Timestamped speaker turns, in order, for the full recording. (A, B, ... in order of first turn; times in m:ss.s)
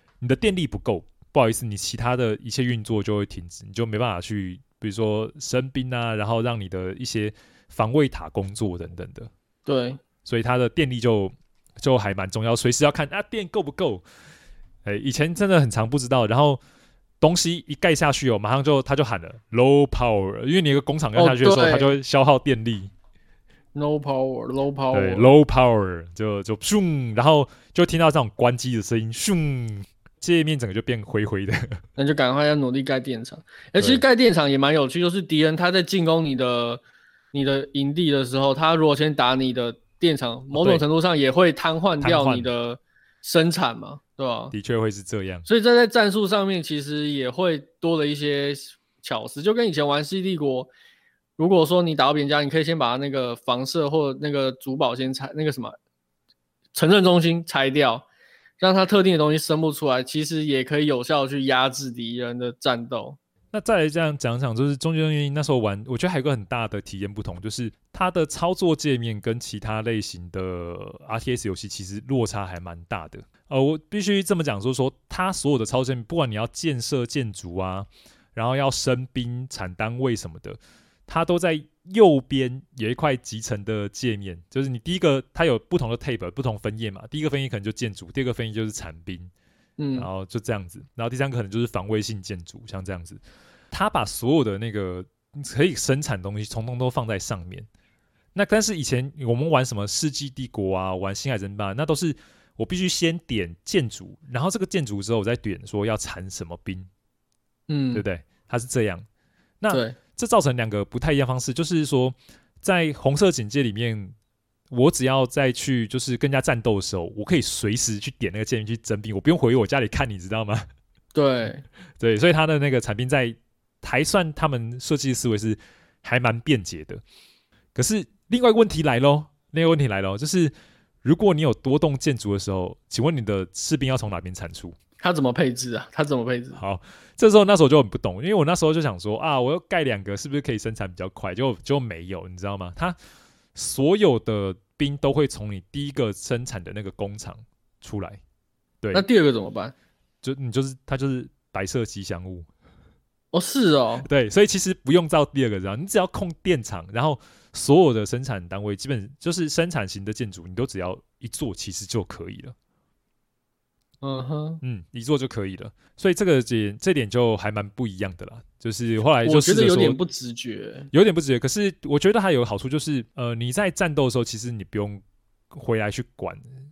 0:00.2-0:09.3 A
0:09.6-0:10.0 B
0:10.2-0:14.0 A
0:14.8-0:16.6 A
0:17.2-0:22.9 A
0:21.2-0:21.9 B
0:23.7-0:25.3 B
0:24.9-0:31.8 A
0:32.0-0:36.8 B
0:33.8-0:34.0 A
0:37.3-0:44.5 B
0:40.5-0:40.8 A
0:42.0-0:42.5 A
0:44.5-0:45.4 A
0:45.4-0:50.7 B
0:51.4-0:55.8 B
0:56.7-0:58.1 B
0:58.6-1:03.2 B
1:03.5-1:29.3 A
1:29.8-1:30.1 B
1:30.0-1:37.7 A
1:38.3-1:46.9 A
1:47.7-1:48.0 B
1:47.9-1:49.0 A
1:49.6-1:54.1 A
1:49.7-1:50.0 B
1:54.7-2:00.6 A
2:01.1-2:01.6 B
2:02.0-2:07.0 A
2:07.7-2:10.5 A
2:11.0-2:14.8 A
2:15.0-2:16.6 B
2:16.5-2:23.0 A
2:23.5-2:28.2 A
2:28.9-2:29.7 B
2:30.2-2:32.5 A
2:33.3-2:34.1 B
2:34.0-2:42.5 A
2:44.0-2:44.6 B
2:44.6-2:50.0 A
2:49.2-2:50.9 B
2:50.9-2:56.4 A